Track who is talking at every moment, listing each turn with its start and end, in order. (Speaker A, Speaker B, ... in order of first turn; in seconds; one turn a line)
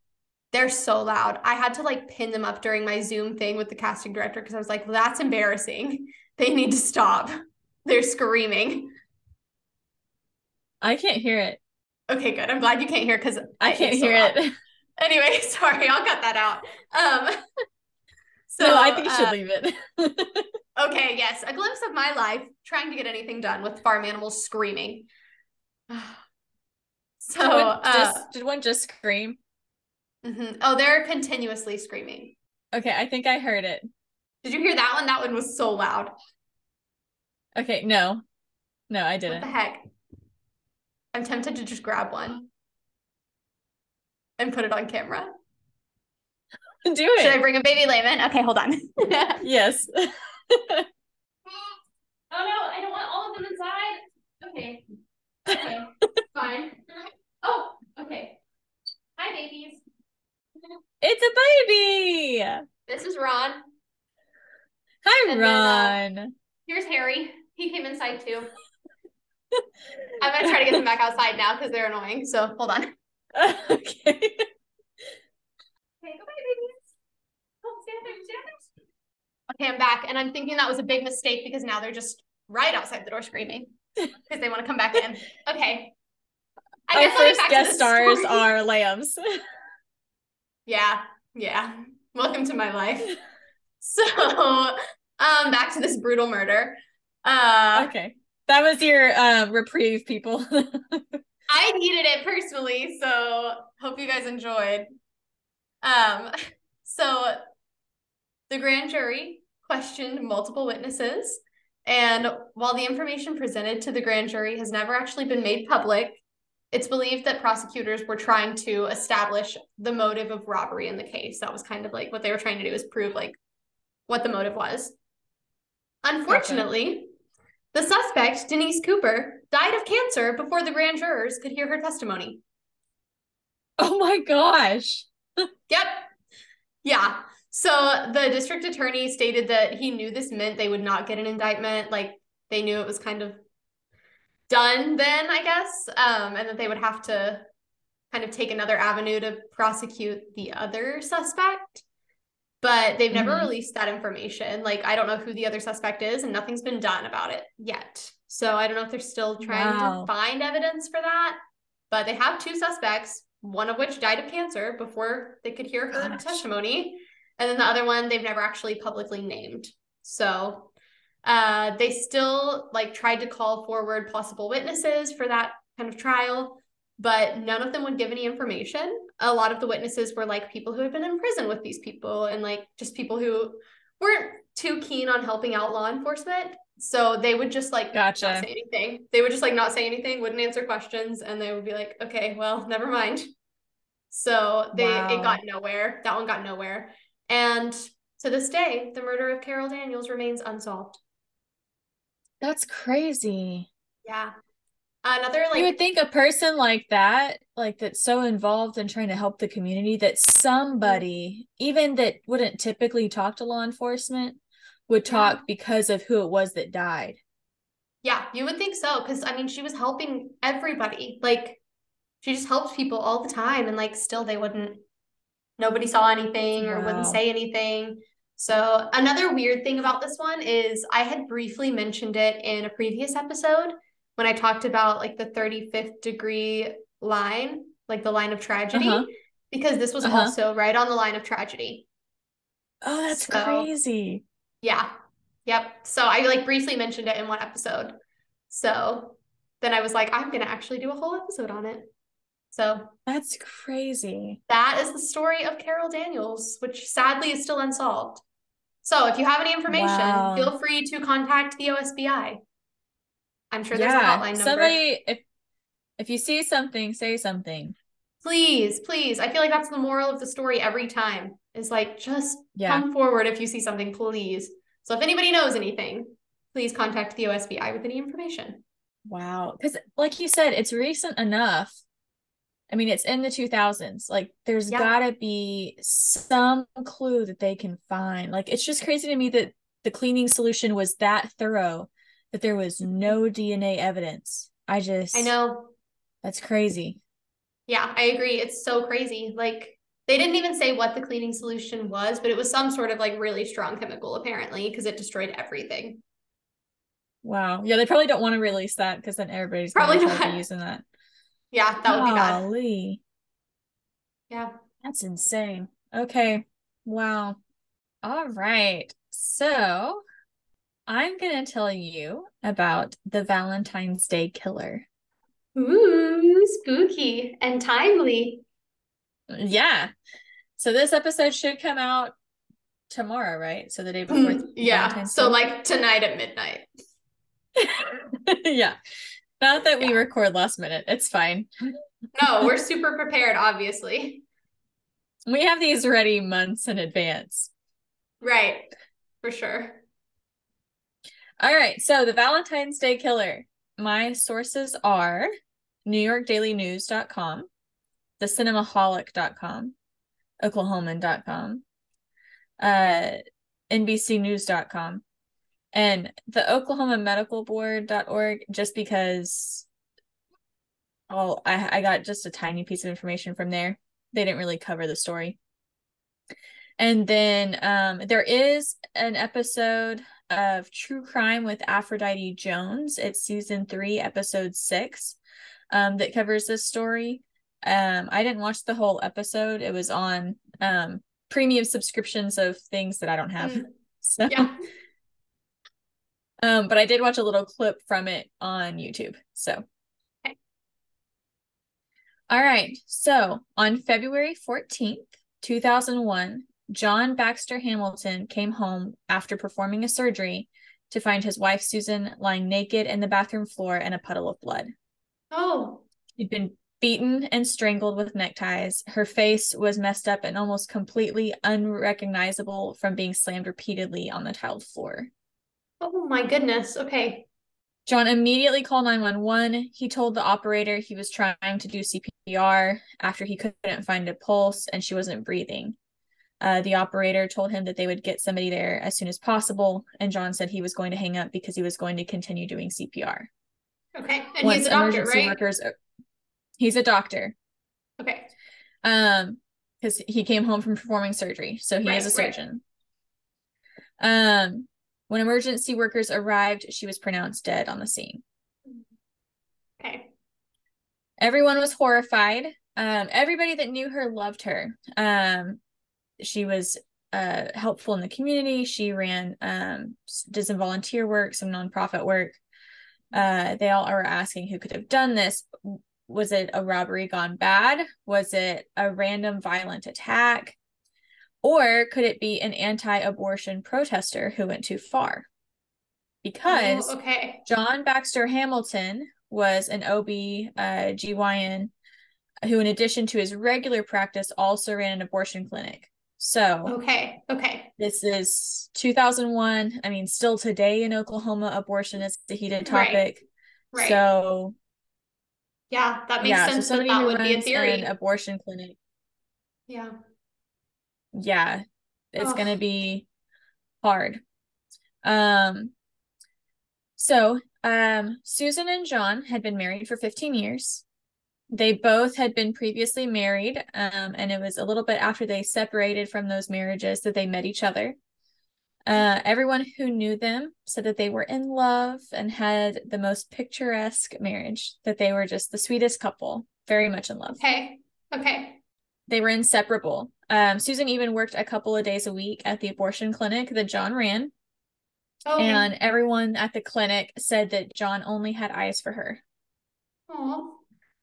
Speaker A: 0.5-8.9
Speaker B: 10.8-11.6
Speaker A: 12.1-14.4
Speaker B: 13.6-14.5
Speaker A: 15.0-17.4
Speaker A: 18.5-19.4
Speaker B: 18.6-20.5
Speaker A: 20.8-25.1
Speaker A: 25.9-26.2
Speaker A: 27.2-28.3
Speaker B: 27.4-29.4
Speaker A: 30.2-32.4
Speaker B: 32.7-33.9
Speaker A: 34.4-36.1
Speaker B: 37.5-38.2
Speaker B: 38.9-39.5
Speaker A: 39.3-39.8
Speaker A: 41.1-42.5
Speaker A: 44.4-45.3
Speaker B: 46.8-47.4
Speaker A: 47.2-49.4
Speaker B: 49.4-50.9
Speaker A: 51.5-51.8
Speaker A: 52.3-54.8
Speaker A: 55.5-58.4
Speaker A: 59.2-59.8
Speaker B: 61.0-62.6
Speaker A: 62.9-63.6
Speaker B: 65.0-66.3
Speaker A: 65.2-66.0
Speaker A: 66.7-68.5
Speaker A: 70.2-72.9
Speaker B: 70.4-70.8
Speaker B: 73.3-74.5
Speaker A: 76.0-76.9
Speaker A: 77.6-78.6
Speaker A: 79.5-83.7
Speaker A: 84.3-85.9
Speaker A: 86.9-88.4
Speaker B: 86.9-89.2
Speaker A: 90.7-93.2
Speaker A: 93.8-97.9
Speaker B: 97.7-101.2
Speaker A: 101.5-104.9
Speaker A: 105.8-106.3
Speaker A: 106.8-107.4
Speaker A: 108.5-123.4
Speaker A: 124.1-124.9
Speaker A: 126.0-127.1
Speaker B: 126.3-126.7
Speaker A: 127.7-132.4
Speaker B: 133.8-135.1
Speaker A: 135.7-136.1
Speaker A: 136.8-143.4
Speaker A: 144.5-147.5
Speaker A: 148.1-151.8
Speaker A: 152.6-161.4
Speaker B: 153.1-153.5
Speaker B: 159.4-160.1
Speaker A: 161.9-170.7
Speaker B: 165.9-166.4
Speaker A: 171.2-193.3
Speaker B: 187.9-188.5
Speaker A: 194.1-201.0
Speaker B: 194.7-195.4
Speaker B: 202.4-203.7
Speaker A: 204.0-204.3
Speaker A: 205.0-205.7
Speaker B: 205.5-217.2
Speaker A: 215.1-215.4
Speaker A: 218.0-221.6
Speaker A: 222.2-224.8
Speaker A: 225.6-241.8
Speaker B: 226.6-227.2
Speaker B: 238.7-239.1
Speaker B: 240.0-240.3
Speaker B: 242.8-244.2
Speaker A: 243.1-243.7
Speaker A: 244.6-244.9
Speaker A: 245.4-247.9
Speaker A: 248.5-251.9
Speaker A: 252.5-252.9
Speaker B: 253.1-254.4
Speaker A: 254.5-258.2
Speaker A: 258.8-262.4
Speaker B: 259.7-260.5
Speaker A: 263.5-264.8
Speaker B: 263.7-265.2
Speaker B: 266.0-267.7
Speaker A: 268.2-278.6
Speaker B: 272.6-272.8
Speaker B: 279.1-281.8
Speaker B: 282.7-295.3
Speaker A: 295.1-295.7
Speaker B: 296.2-297.0
Speaker A: 297.7-306.0
Speaker B: 307.2-310.8
Speaker A: 309.7-310.4
Speaker A: 311.5-312.4
Speaker B: 311.8-313.0
Speaker B: 314.8-317.4
Speaker B: 318.0-320.0
Speaker B: 320.9-324.9
Speaker A: 325.5-328.4
Speaker B: 329.3-329.9
Speaker B: 330.6-332.1
Speaker B: 332.9-335.4
Speaker A: 334.1-336.7
Speaker B: 337.6-338.8
Speaker B: 339.4-341.5
Speaker A: 342.1-344.2
Speaker B: 345.3-347.5
Speaker A: 348.2-348.7
Speaker A: 349.2-349.8
Speaker B: 351.4-355.3
Speaker B: 355.9-357.5
Speaker B: 358.2-359.7
Speaker B: 360.4-361.6
Speaker B: 362.6-363.2
Speaker B: 363.7-365.0
Speaker B: 365.7-369.7
Speaker B: 371.1-375.4
Speaker B: 376.8-385.2
Speaker B: 385.7-394.5
Speaker A: 393.4-393.7
Speaker A: 394.3-394.5
Speaker B: 396.4-399.6
Speaker B: 402.3-414.7
Speaker A: 415.3-415.8
Speaker B: 416.2-425.1
Speaker A: 425.8-427.3
Speaker B: 427.9-435.8
Speaker B: 436.4-443.3
Speaker A: 443.9-445.4
Speaker B: 444.4-445.7
Speaker B: 446.6-447.3
Speaker A: 448.0-448.3
Speaker B: 448.8-452.6
Speaker A: 451.8-452.4
Speaker B: 454.0-458.2
Speaker A: 459.8-460.1
Speaker B: 461.2-465.6
Speaker B: 466.2-472.4
Speaker B: 473.1-480.6
Speaker B: 481.4-485.3
Speaker B: 486.2-491.7
Speaker A: 486.4-487.4
Speaker B: 492.4-496.8
Speaker A: 496.6-497.7
Speaker B: 497.8-503.2
Speaker A: 502.6-503.1
Speaker A: 503.7-504.0
Speaker B: 503.8-504.5
Speaker A: 505.7-507.9
Speaker B: 506.2-508.8
Speaker A: 509.7-509.9
Speaker B: 511.1-511.6
Speaker B: 512.1-513.0
Speaker A: 512.2-512.6
Speaker B: 513.8-514.2
Speaker B: 515.0-515.7
Speaker B: 517.0-520.8
Speaker B: 521.5-528.0
Speaker B: 528.9-537.4
Speaker A: 537.3-538.6
Speaker B: 539.1-544.3
Speaker A: 545.2-545.7
Speaker B: 545.4-549.2
Speaker A: 550.1-550.6